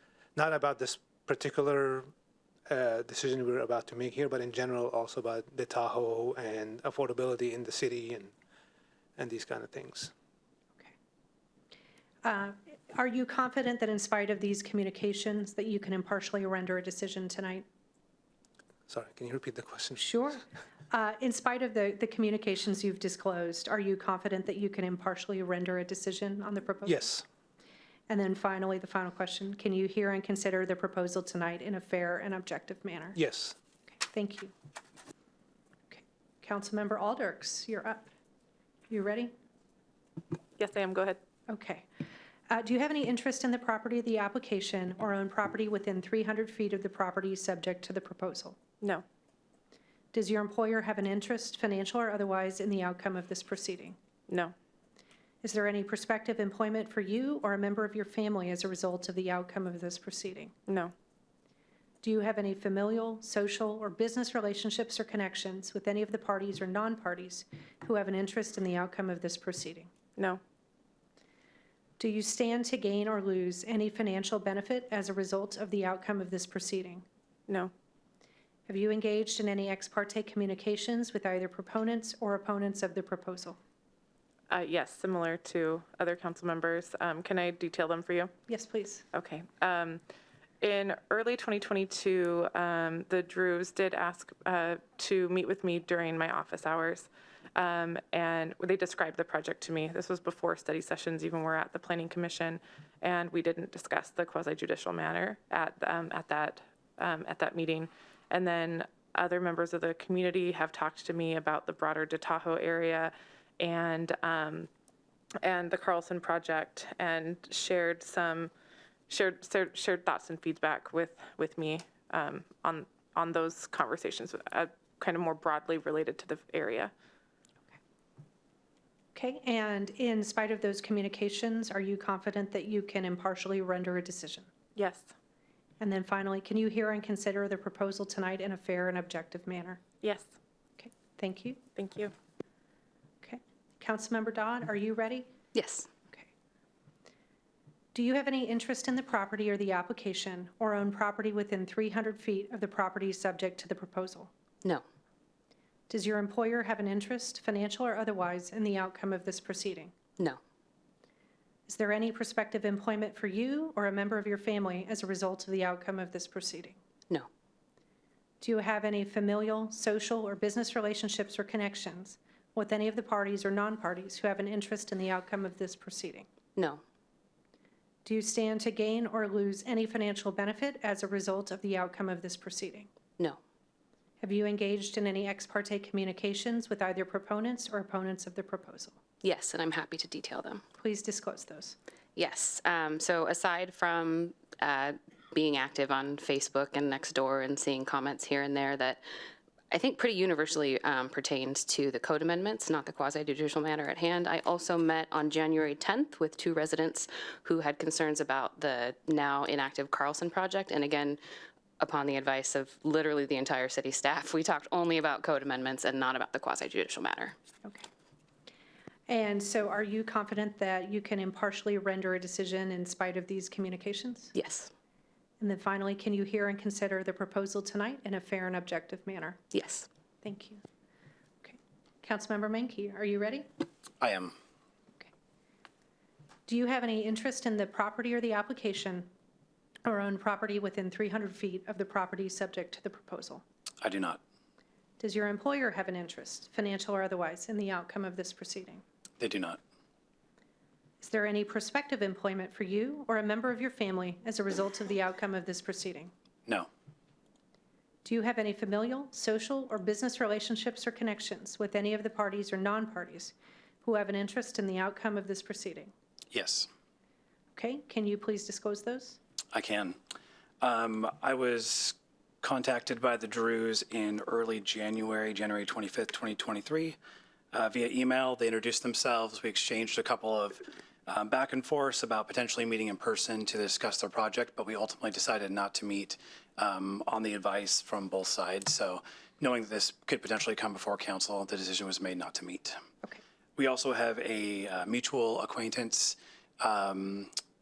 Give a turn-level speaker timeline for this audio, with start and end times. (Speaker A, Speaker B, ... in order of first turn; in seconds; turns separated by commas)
Speaker A: 0.3-2.1, Speaker A: 2.7-8.3, Speaker A: 9.2-10.1, Speaker B: 12.2-17.6, Speaker A: 18.9-20.4, Speaker B: 20.0-27.1, Speaker A: 26.8-27.2, Speaker B: 28.1-33.2, Speaker A: 33.1-33.5, Speaker B: 34.0-34.5, Speaker B: 35.9-38.1, Speaker B: 38.9-39.3, Speaker C: 40.6-41.2, Speaker B: 41.5-41.9, Speaker B: 42.5-48.6, Speaker B: 50.1-54.0, Speaker C: 54.3-54.5, Speaker B: 55.4-60.5, Speaker C: 60.7-60.9, Speaker B: 62.0-69.9, Speaker B: 72.0-77.0, Speaker B: 78.7-83.6, Speaker C: 84.5-88.3, Speaker B: 88.5-89.0, Speaker C: 89.1-90.0, Speaker C: 90.6-114.7, Speaker C: 115.4-118.5, Speaker C: 119.1-126.9, Speaker B: 129.1-134.5, Speaker C: 134.8-135.1, Speaker B: 135.8-139.8, Speaker C: 140.0-140.3, Speaker B: 140.8-141.6, Speaker C: 141.8-142.1, Speaker B: 143.2-145.3, Speaker D: 145.5-145.9, Speaker B: 147.9-154.3, Speaker B: 155.9-159.9, Speaker B: 161.7-166.8, Speaker B: 168.4-176.3, Speaker D: 176.6-176.8, Speaker B: 178.0-182.9, Speaker B: 184.2-189.0, Speaker D: 189.2-190.6, Speaker B: 190.8-191.8, Speaker D: 192.2-199.0, Speaker D: 199.7-211.2, Speaker D: 211.8-217.3, Speaker B: 219.1-224.3, Speaker D: 224.3-224.7, Speaker B: 225.4-229.4, Speaker D: 229.5-229.9, Speaker B: 230.2-230.6, Speaker B: 231.4-233.5, Speaker E: 234.0-234.3, Speaker B: 236.5-239.1, Speaker B: 239.8-243.4, Speaker E: 243.8-244.2, Speaker B: 245.0-248.8, Speaker E: 249.2-249.6, Speaker B: 251.0-256.1, Speaker B: 258.0-265.9, Speaker E: 266.3-266.7, Speaker B: 267.5-269.2, Speaker E: 269.5-270.0, Speaker E: 270.6-277.0, Speaker E: 277.5-292.8, Speaker E: 293.6-297.3